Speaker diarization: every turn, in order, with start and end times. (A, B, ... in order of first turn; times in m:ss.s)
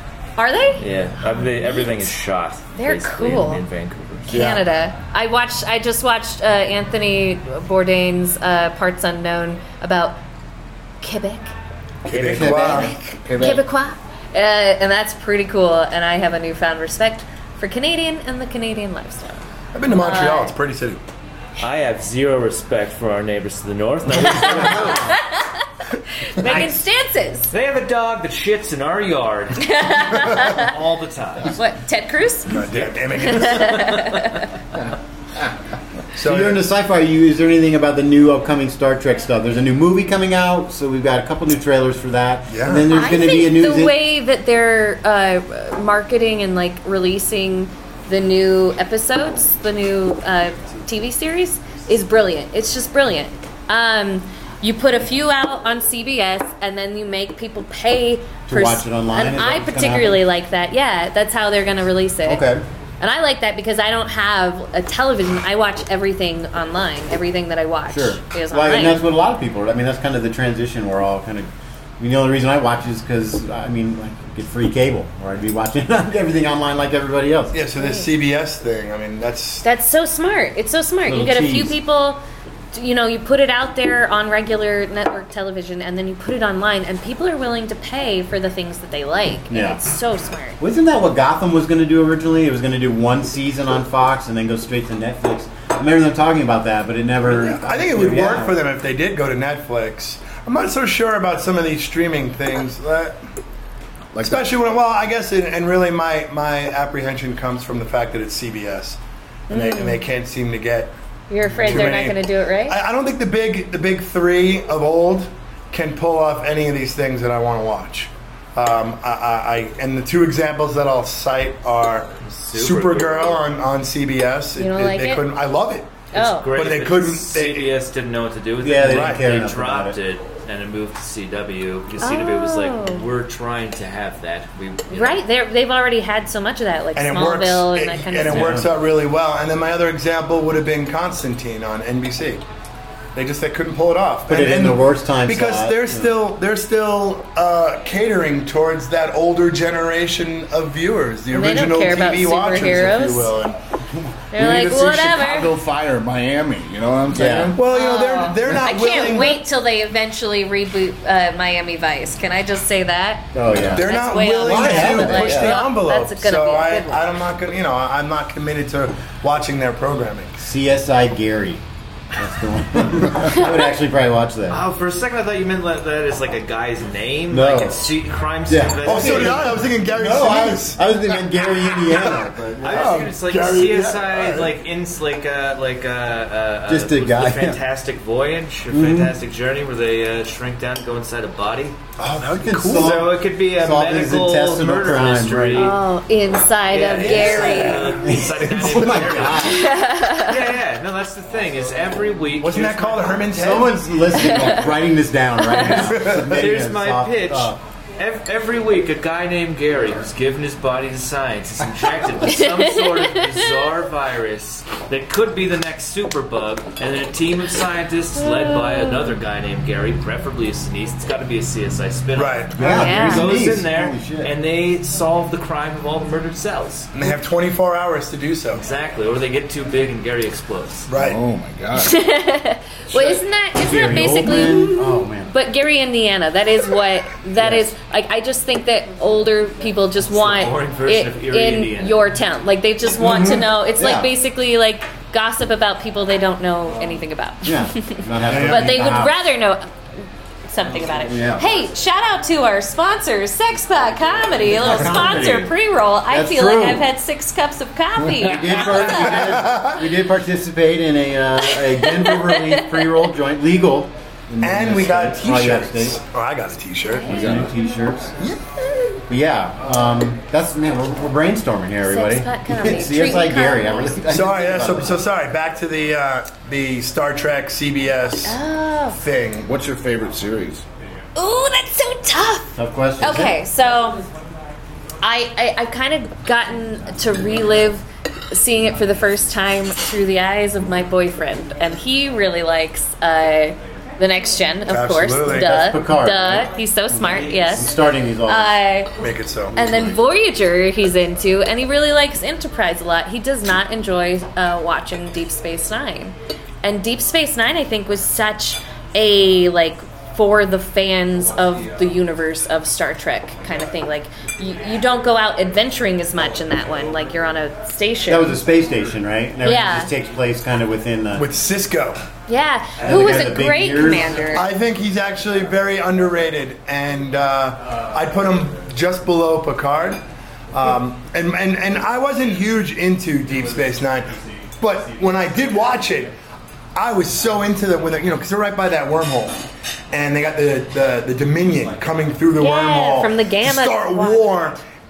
0:00.4-0:00.8 A
0:00.8-0:04.4 B
0:01.4-0:01.9 A
0:02.8-0:03.6 A
0:04.3-0:10.2 A
0:04.3-0:04.7 C
0:11.0-0:11.5 A
0:12.1-0:13.0 D
0:12.1-0:13.0 C
0:12.2-0:13.7 E
0:12.9-0:19.4 A
0:19.7-0:21.0 C
0:20.0-0:20.5 A
0:21.6-0:25.2 B
0:24.2-0:25.5 A
0:26.2-0:27.5 A
0:26.4-0:26.7 C
0:27.5-0:31.6 B
0:29.6-0:30.7 A
0:31.5-0:32.6 A
0:32.5-0:34.0 C
0:33.2-0:34.5 A
0:36.2-0:36.6 C
0:36.2-0:44.0 D
0:42.5-0:42.9 C
0:42.9-1:02.5 A
0:58.5-1:00.2 D
1:02.3-1:02.6 D
1:03.0-1:09.0 A
1:07.9-1:17.6 D
1:17.5-1:19.6 C
1:17.8-1:18.1 A
1:19.6-1:22.2 A
1:21.1-1:21.8 D
1:22.7-1:30.6 A
1:29.5-1:29.8 D
1:30.6-1:38.6 D
1:37.3-1:43.2 C
1:44.1-1:44.5 E
1:44.2-1:49.0 C
1:49.5-1:50.0 A
1:49.5-1:50.9 C
1:51.3-1:52.8 A
1:51.6-2:07.7 C
2:02.2-2:03.5 B
2:04.6-2:05.2 A
2:06.1-2:06.5 A
2:06.1-2:15.2 B
2:08.6-2:10.0 D
2:08.8-2:09.2 C
2:12.0-2:13.0 A
2:14.9-2:18.6 A
2:17.0-2:22.4 C
2:18.3-2:18.7 D
2:23.2-2:33.6 C
2:24.3-2:26.2 D
2:31.3-2:33.3 A
2:34.3-2:35.5 A
2:34.4-2:37.6 E
2:37.1-2:37.5 D
2:37.5-2:39.4 C
2:37.6-2:47.0 A
2:43.3-2:43.9 D
2:43.6-2:50.3 C
2:44.4-2:45.6 D
2:45.2-2:45.5 E
2:50.4-2:51.6 D
2:52.2-2:54.6 D
2:54.5-2:59.6 B
2:57.3-2:57.9 D
2:58.5-3:02.9 D
2:58.8-3:00.8 C
3:01.8-3:04.5 C
3:02.6-3:11.8 B
3:06.7-3:07.6 D
3:08.7-3:09.2 D
3:12.0-3:13.0 C
3:12.2-3:15.7 D
3:12.6-3:15.8 B
3:15.5-3:17.9 A
3:16.7-3:23.3 B
3:16.8-3:18.1 C
3:18.0-3:19.7 D
3:18.6-3:19.4 C
3:19.4-3:20.4 A
3:22.4-3:23.8 C
3:23.3-3:27.6 D
3:24.2-3:24.6 A
3:25.6-3:26.4 C
3:26.3-3:46.9 B
3:32.3-3:33.4 A
3:38.2-3:39.0 A
3:42.2-3:42.6 C
3:42.6-3:44.3 D
3:42.7-3:43.3 A
3:46.9-3:48.6 C
3:48.5-3:50.9 B
3:50.9-3:51.2 C
3:50.9-3:52.0 E
3:51.8-4:09.7 A
3:53.6-3:55.3 D
3:57.4-3:57.7 D
4:00.1-4:02.1 B
4:03.0-4:03.4 C
4:03.0-4:04.1 D
4:07.4-4:09.3 D
4:08.3-4:08.7 C
4:10.5-4:19.1 A
4:11.1-4:11.5 D
4:14.4-4:15.5 D
4:16.1-4:16.9 D
4:18.2-4:26.0 D
4:18.9-4:19.8 C
4:21.5-4:23.1 A
4:24.4-4:27.2 C
4:26.9-4:27.2 A
4:27.1-4:27.5 E
4:27.1-4:28.1 D
4:28.2-4:29.0 C
4:29.1-4:35.0 D
4:31.8-4:34.0 A
4:34.1-4:38.4 C
4:38.2-4:39.0 A
4:38.9-4:39.5 C
4:39.4-4:40.6 E
4:41.2-4:44.0 A
4:42.6-4:43.4 D
4:45.0-4:57.7 A
4:54.7-4:55.7 C
4:55.3-4:58.6 D
4:58.2-4:58.9 A
4:59.0-4:59.5 C
4:59.5-4:59.9 D
4:59.5-5:18.4 A
5:18.1-5:21.3 D
5:19.4-5:19.9 A
5:21.2-5:22.0 C
5:22.3-5:24.5 A
5:22.8-5:24.2 D
5:22.9-5:23.2 C
5:24.3-5:30.0 C
5:30.5-5:36.1 C
5:36.8-5:39.4 C
5:39.9-5:44.6 C
5:42.4-5:44.3 A